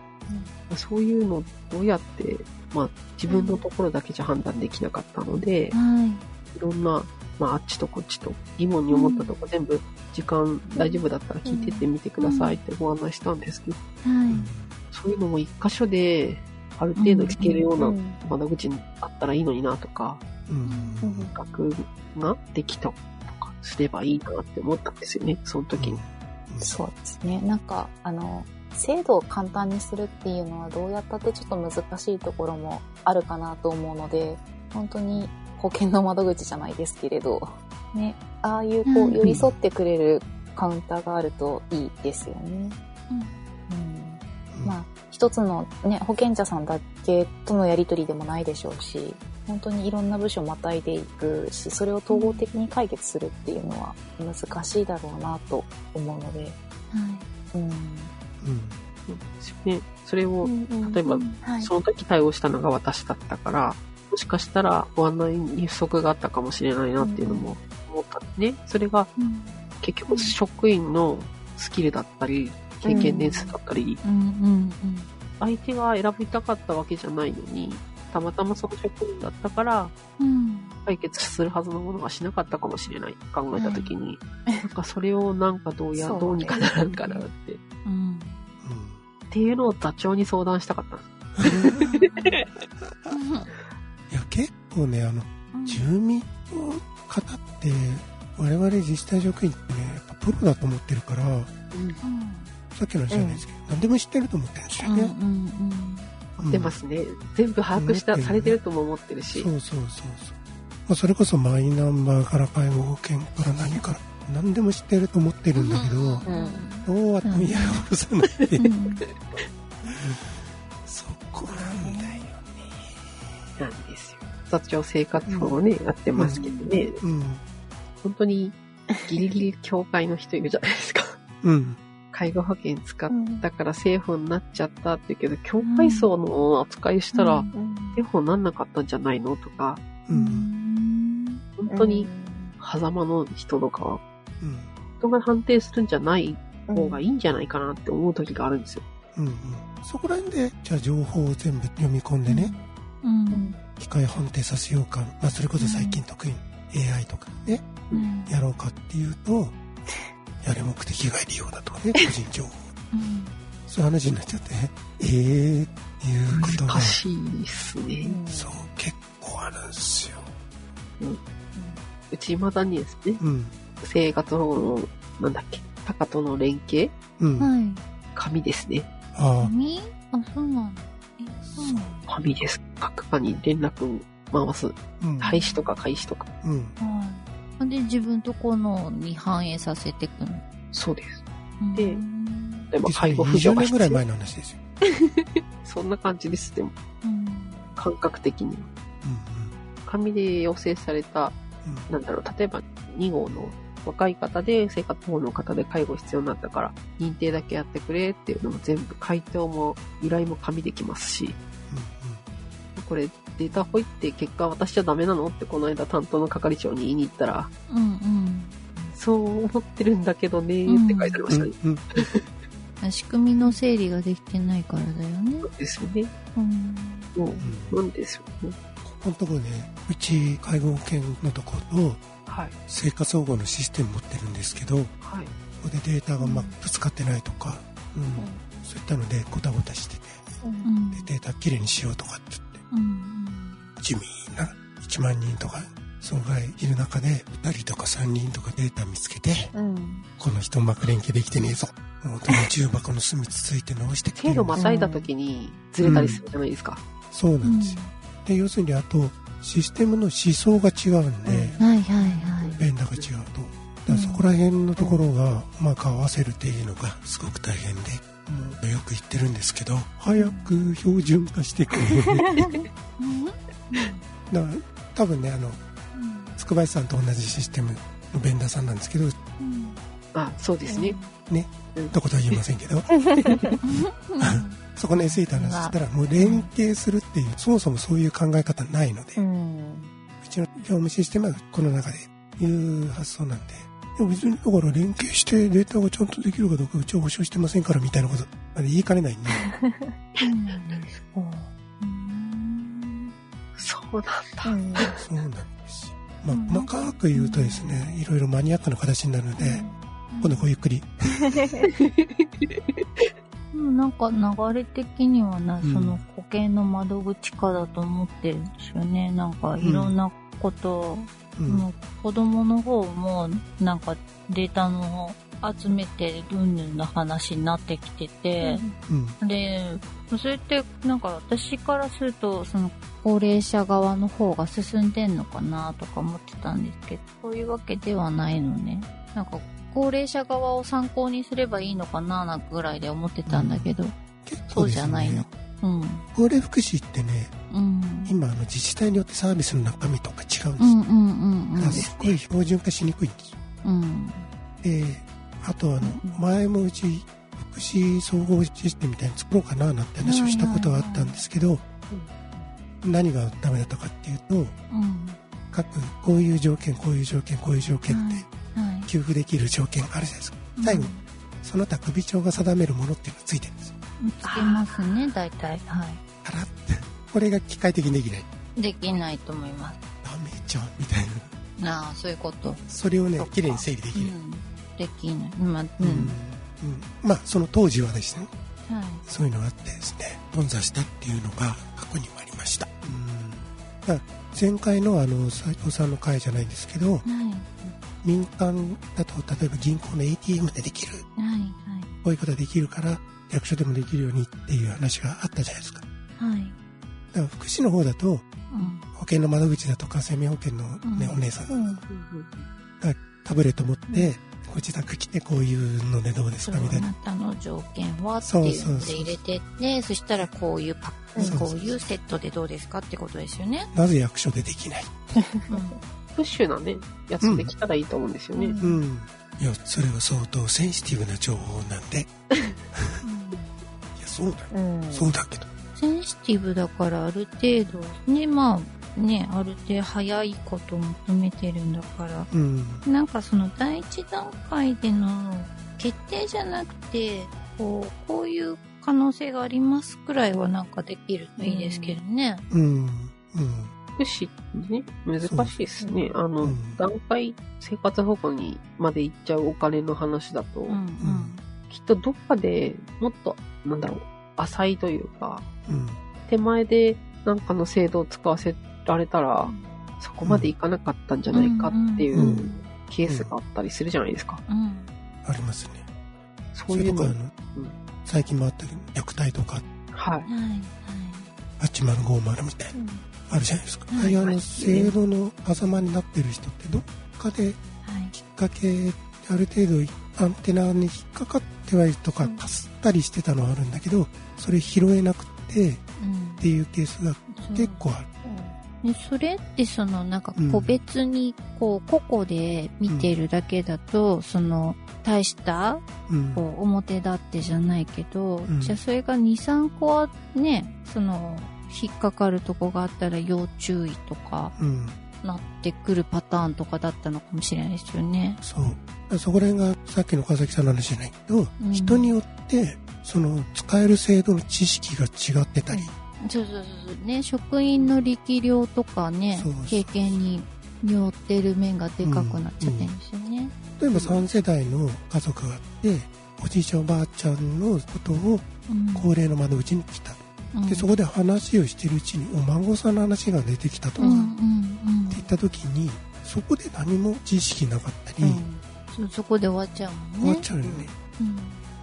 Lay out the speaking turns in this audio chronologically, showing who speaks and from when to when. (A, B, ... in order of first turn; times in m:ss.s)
0:00.7-0:05.8 A
0:03.3-0:03.6 B
0:05.7-0:06.2 B
0:06.5-0:13.8 A
0:08.9-0:09.3 B
0:10.7-0:11.9 C
0:12.2-0:12.6 B
0:14.0-0:14.5 B
0:14.3-0:14.8 D
0:14.9-0:20.2 A
0:17.0-0:17.7 B
0:17.8-0:18.2 C
0:20.5-0:21.3 D
0:20.6-0:21.0 B
0:21.0-0:21.3 C
0:21.3-0:26.0 A
0:25.8-0:26.8 D
0:26.6-0:42.8 C
0:38.9-0:39.2 B
0:39.2-0:39.6 D
0:43.1-0:43.4 B
0:43.7-0:56.6 C
0:44.5-0:44.8 D
0:52.1-0:52.5 B
0:56.9-0:57.3 B
0:57.5-0:58.1 C
0:58.4-0:58.8 D
0:59.1-1:09.1 A
1:00.4-1:01.7 C
1:01.1-1:01.4 B
1:07.0-1:07.5 C
1:09.2-1:10.3 B
1:09.8-1:14.0 A
1:12.8-1:13.6 C
1:14.0-1:15.1 B
1:15.4-1:19.9 A
1:20.2-1:20.8 B
1:20.8-1:27.6 A
1:23.6-1:23.9 B
1:26.0-1:26.6 C
1:26.6-1:27.3 B
1:27.8-1:28.5 B
1:28.6-1:29.0 D
1:29.3-1:32.5 A
1:31.4-1:32.0 D
1:32.0-1:32.4 B
1:32.8-1:33.2 D
1:33.1-1:33.5 B
1:34.1-1:41.5 D
1:35.5-1:35.9 B
1:41.7-1:42.0 A
1:42.0-1:42.5 B
1:42.7-1:45.1 D
1:43.1-1:43.4 C
1:44.8-1:46.1 B
1:46.4-1:46.8 D
1:46.4-1:49.5 A
1:47.8-1:48.6 D
1:49.3-1:50.4 D
1:50.9-1:56.3 D
1:55.6-1:57.9 B
1:56.3-1:56.7 C
1:56.8-1:58.7 D
1:58.6-1:59.0 B
1:59.9-2:03.5 D
2:01.5-2:02.3 C
2:03.6-2:07.0 A
2:06.2-2:06.4 D
2:06.3-2:06.8 C
2:07.0-2:07.4 D
2:08.0-2:11.2 A
2:08.9-2:09.3 C
2:11.4-2:11.8 D
2:12.1-2:19.8 A
2:13.1-2:13.5 C
2:15.6-2:16.1 B
2:17.1-2:17.5 B
2:17.5-2:18.0 C
2:20.1-2:20.5 D
2:20.1-2:21.4 B
2:21.6-2:22.1 A
2:21.7-2:22.6 C
2:22.6-2:24.0 A
2:24.4-2:24.7 D
2:25.0-2:28.8 A
2:26.7-2:27.0 C
2:29.2-2:32.5 D
2:32.3-2:33.6 B
2:33.3-2:33.6 C
2:33.8-2:37.7 D
2:35.6-2:36.0 B
2:37.9-2:38.3 B
2:38.3-2:39.6 D
2:40.4-2:42.7 D
2:42.9-2:43.4 B
2:43.7-2:47.0 D
2:46.3-2:48.2 A
2:48.0-2:48.7 C
2:48.3-2:50.3 D
2:51.6-2:51.8 C
2:52.1-2:53.2 A
2:53.2-2:53.6 D
2:53.8-2:57.0 A
2:57.2-2:57.5 D
2:57.4-2:57.8 B
2:58.2-2:58.9 A
2:59.1-2:59.5 D
2:59.4-3:02.0 B
3:01.4-3:02.0 D
3:02.1-3:06.3 A
3:05.0-3:05.4 D
3:05.2-3:05.6 B
3:06.4-3:06.8 D
3:06.8-3:10.4 B
3:10.7-3:11.2 A
3:11.6-3:12.7 B
3:11.8-3:12.0 A
3:12.7-3:14.0 A
3:12.8-3:14.6 D
3:14.8-3:16.8 A
3:17.0-3:17.8 B
3:17.8-3:18.7 A
3:19.0-3:19.6 D
3:19.8-3:31.4 A
3:21.6-3:21.9 D
3:31.7-3:32.2 D
3:32.8-3:37.5 A
3:37.7-3:38.6 B
3:38.8-3:42.3 A
3:40.7-3:41.3 B
3:41.3-3:41.8 D
3:42.8-3:45.5 B
3:45.4-3:46.1 A
3:46.4-3:47.1 B
3:47.2-3:48.6 A
3:47.4-3:47.8 D
3:48.8-3:52.0 D
3:52.3-3:52.6 A
3:52.7-3:54.9 D
3:55.0-3:55.3 A
3:55.6-4:00.2 D
3:56.2-3:56.6 B
3:58.2-3:58.4 C
4:00.4-4:00.7 C
4:00.6-4:01.1 B
4:00.9-4:02.6 D
4:02.7-4:03.6 B
4:03.8-4:09.5 D
4:09.5-4:10.1 C
4:10.2-4:14.6 D
4:14.2-4:16.8 A
4:14.6-4:15.0 B
4:15.8-4:16.2 D
4:17.1-4:21.6 D
4:17.4-4:17.9 B
4:21.3-4:21.6 A
4:21.4-4:22.2 C
4:21.6-4:22.6 B
4:22.4-4:23.1 A
4:22.6-4:32.4 D
4:23.9-4:24.2 B
4:24.8-4:25.0 A
4:30.2-4:30.6 B
4:33.0-4:34.1 B
4:34.3-4:35.6 D
4:35.9-4:36.4 B
4:36.4-4:39.2 D
4:39.4-4:39.8 B
4:40.1-4:41.0 A
4:40.7-4:41.0 C
4:41.3-4:42.9 D
4:41.8-4:42.4 A
4:43.2-4:43.6 A
4:43.6-4:46.5 B
4:44.2-4:49.2 D
4:49.2-4:49.9 C
4:50.2-4:59.5 D
4:59.4-4:59.9 C
5:00.2-5:00.8 A
5:00.2-5:03.1 B
5:03.6-5:05.0 A
5:04.4-5:04.9 C
5:05.0-5:09.6 D
5:06.3-5:07.8 B
5:09.4-5:09.7 C
5:10.1-5:10.5 B
5:10.2-5:11.4 D
5:11.3-5:11.7 C
5:11.7-5:13.1 A
5:13.5-5:28.6 B
5:15.6-5:16.0 D
5:19.6-5:20.0 D
5:21.4-5:21.7 D
5:28.4-5:28.8 C
5:28.9-5:29.2 D
5:29.2-5:44.0 B
5:43.3-5:45.3 D
5:44.5-5:46.1 B
5:46.1-5:47.3 D
5:47.5-5:48.1 B
5:48.0-5:50.8 D
5:50.6-5:51.9 B
5:51.6-5:53.4 D
5:51.6-5:52.2 A
5:53.6-5:54.3 B
5:54.6-6:01.6 D
5:55.8-5:56.2 C
6:00.0-6:01.2 B
6:01.9-6:02.5 A
6:02.8-6:04.6 D
6:04.7-6:05.2 B
6:05.5-6:08.3 D
6:07.9-6:08.9 B
6:08.9-6:13.7 D
6:10.6-6:11.0 B
6:14.0-6:16.0 B
6:14.2-6:14.8 C
6:16.2-6:18.3 D
6:18.6-6:19.8 B
6:20.0-6:21.3 D
6:21.6-6:26.2 B
6:22.7-6:24.1 D
6:25.8-6:28.3 D
6:28.7-6:29.0 B
6:29.1-6:37.0 D
6:37.0-6:37.5 B
6:38.0-6:41.1 D
6:41.2-6:41.9 B
6:42.0-6:45.8 D
6:46.2-6:46.6 B
6:47.1-6:48.3 D
6:48.5-6:48.8 B
6:48.9-6:51.6 D
6:50.8-6:51.2 B
6:51.5-6:51.8 C
6:51.9-6:52.5 A
6:52.8-6:56.9 D
6:56.4-7:03.7 B
6:58.2-6:59.2 D
7:01.2-7:01.4 C
7:01.2-7:01.8 D
7:03.7-7:05.2 D
7:05.2-7:05.8 C
7:05.5-7:05.8 B
7:06.2-7:08.6 A
7:07.2-7:07.5 D
7:08.4-7:08.8 C
7:08.6-7:12.1 D
7:13.0-7:13.5 B
7:14.0-7:15.5 D
7:14.5-7:15.1 C
7:15.8-7:22.3 B
7:22.3-7:22.8 D
7:22.8-7:32.4 B
7:31.4-7:32.0 C
7:32.5-7:33.7 D
7:34.0-7:40.8 A
7:35.2-7:35.6 D
7:36.4-7:36.8 D
7:40.7-7:41.4 B
7:41.0-7:41.4 D
7:41.7-7:45.5 A
7:45.7-7:46.0 D
7:46.3-7:54.4 A
7:49.4-7:49.7 B
7:50.2-7:50.5 D
7:51.3-7:52.1 B
7:52.1-7:52.5 D
7:53.1-7:53.3 D
7:54.5-7:54.9 B
7:55.2-7:55.9 D
7:56.6-7:57.8 A
7:56.7-7:57.3 D
7:58.0-7:59.6 D
7:59.9-8:00.3 A
8:00.3-8:01.3 B
8:01.6-8:02.8 D
8:02.7-8:03.0 C
8:03.3-8:07.6 D
8:03.9-8:04.2 B
8:04.2-8:04.9 A
8:07.8-8:08.1 B
8:08.1-8:15.8 D
8:16.0-8:16.4 B
8:16.4-8:18.1 D
8:17.3-8:17.8 B
8:18.2-8:18.6 C
8:18.8-8:25.8 B
8:20.4-8:20.8 D
8:22.9-8:23.2 D
8:26.1-8:26.5 D
8:26.3-8:34.6 B
8:28.5-8:28.8 D
8:34.6-8:35.0 D
8:35.2-8:38.4 B
8:38.4-8:45.9 D
8:41.6-8:42.2 B
8:46.2-8:53.6 B
8:49.3-8:50.2 D
8:52.0-8:52.9 D
8:53.8-9:04.2 D
8:53.9-8:54.2 A
8:58.7-8:59.1 B
9:00.5-9:00.9 B
9:04.0-9:04.3 C
9:04.0-9:05.3 B
9:05.1-9:08.4 D
9:08.2-9:10.5 B
9:10.2-9:10.9 D
9:10.6-9:10.9 A
9:11.2-9:11.6 B